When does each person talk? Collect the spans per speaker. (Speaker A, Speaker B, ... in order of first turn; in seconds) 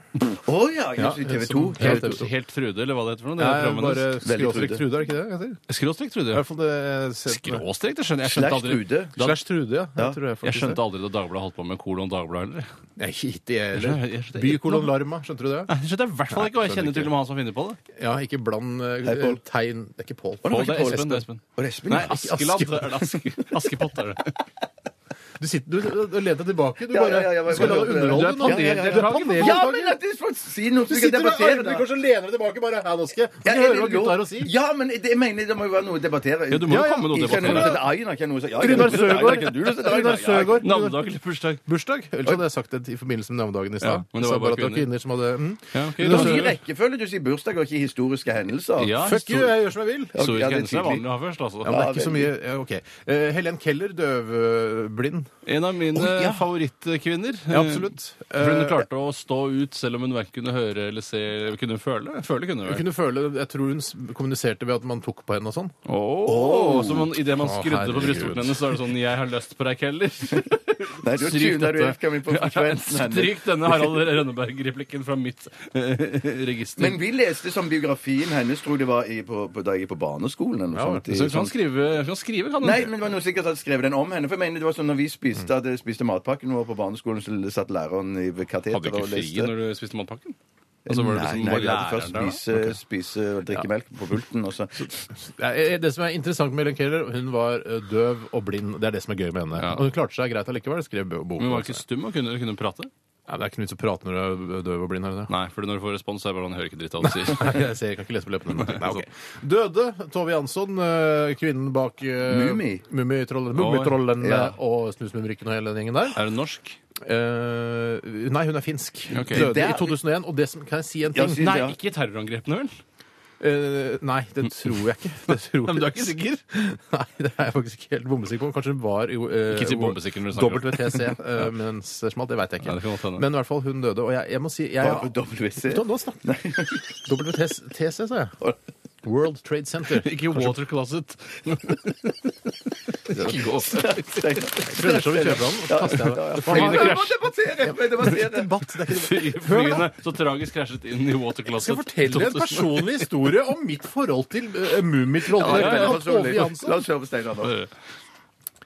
Speaker A: 0.3-2.1, 4.2-4.8, 8.2-9.2, 19.0-19.4, 20.4-21.0, 21.6-22.2, 26.9-31.9, 33.4-40.6, 46.0-48.9, 50.1-51.0, 51.6-52.3, 55.9-56.5, 66.2-67.1, 71.0-74.1, 76.8-81.5, 82.6-89.5, 90.8-94.9, 112.2-112.8, 114.2-114.5, 119.3-120.0, 121.1-121.8, 134.8-136.8, 143.7-148.6, 155.3-157.6
Speaker B: 1.0-2.3, 3.4-5.6, 6.3-7.6, 9.2-10.8, 13.0-15.7, 16.3-17.1, 17.9-21.2, 22.0-23.1, 25.4-29.9, 30.9-34.5, 36.7-37.8, 38.6-41.0, 41.6-46.5, 49.0-50.2, 51.6-55.3, 57.5-58.8, 62.6-65.7, 67.3-68.8, 80.7-81.0, 94.8-101.8, 103.3-105.3, 107.0-116.2, 117.0-121.4, 123.4-135.1, 135.6-136.3, 137.0-138.4, 139.0-140.6, 143.1-143.7, 144.6-147.1, 147.6-149.9, 151.5-156.8
Speaker C: 1.8-4.1, 5.7-6.4, 7.3-9.4, 10.4-12.7, 13.7-15.0, 15.7-17.8, 20.4-24.4, 27.5-29.6, 36.5-37.8, 40.6-41.6, 43.8-44.9, 45.7-46.5, 48.8-49.6, 50.1-51.8, 55.4-62.8, 65.8-77.0, 81.1-83.0, 88.7-90.3, 90.9-92.4, 99.6-99.8, 101.4-102.9, 105.3-107.7, 108.5-109.0, 113.5-114.0, 116.1-116.8, 119.1-119.5, 121.3-122.7, 125.6-126.4, 129.5-131.5, 132.6-133.2, 139.9-142.5, 143.1-144.4, 146.3-147.2, 148.8-153.1, 155.3-156.4, 157.4-157.7